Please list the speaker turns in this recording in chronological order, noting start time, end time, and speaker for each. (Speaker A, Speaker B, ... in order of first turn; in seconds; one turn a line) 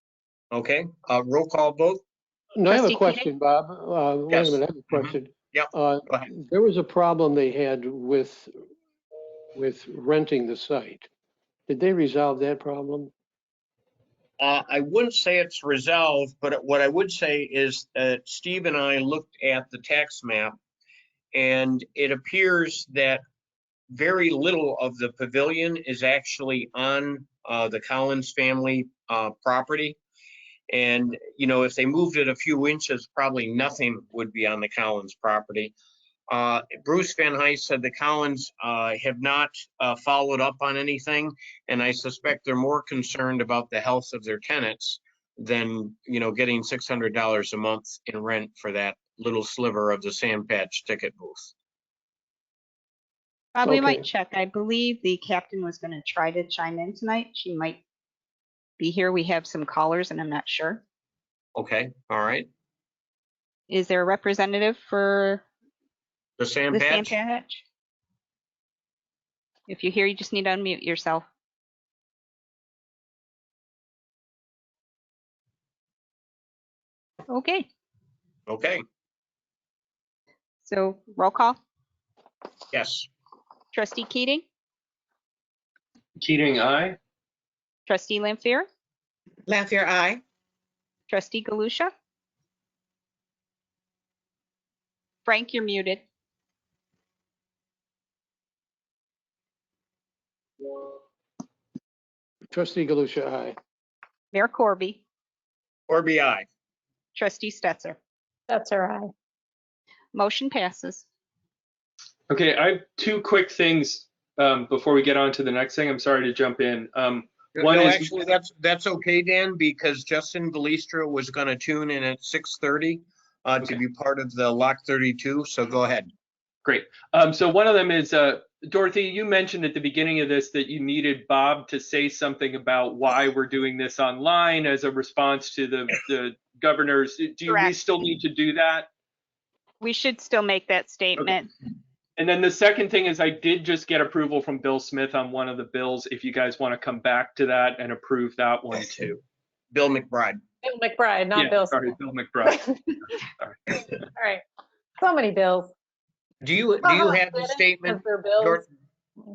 Speaker A: 0.5-2.0
Speaker B: 2.5-8.5
Speaker C: 2.7-3.3
Speaker A: 4.3-6.3
Speaker B: 9.6-11.1
Speaker B: 11.7-13.1
Speaker A: 14.4-20.6
Speaker A: 21.3-23.2
Speaker A: 23.9-30.0
Speaker A: 30.7-35.8
Speaker A: 36.3-51.5
Speaker C: 53.5-57.8
Speaker B: 53.6-54.0
Speaker C: 58.8-60.8
Speaker A: 61.6-62.5
Speaker C: 63.7-65.4
Speaker A: 66.4-67.2
Speaker C: 66.7-67.6
Speaker C: 69.7-71.2
Speaker C: 77.3-77.7
Speaker A: 78.5-78.8
Speaker C: 80.6-81.6
Speaker A: 82.7-83.1
Speaker C: 83.7-84.4
Speaker D: 86.2-87.0
Speaker C: 87.9-88.7
Speaker A: 89.5-90.2
Speaker C: 91.1-91.9
Speaker C: 95.3-96.0
Speaker B: 102.5-103.6
Speaker C: 104.3-105.0
Speaker A: 105.9-106.5
Speaker C: 107.2-108.0
Speaker E: 108.5-109.1
Speaker C: 110.1-111.0
Speaker D: 112.3-118.1
Speaker A: 117.5-126.1
Speaker D: 126.7-138.9
Speaker C: 137.5-137.7
Speaker C: 139.8-141.5
Speaker D: 142.2-149.2
Speaker A: 149.7-150.4
Speaker E: 150.6-151.9
Speaker D: 151.3-153.9
Speaker E: 152.5-152.7
Speaker E: 154.2-154.4
Speaker E: 155.0-155.7
Speaker A: 156.4-158.7
Speaker E: 156.8-158.6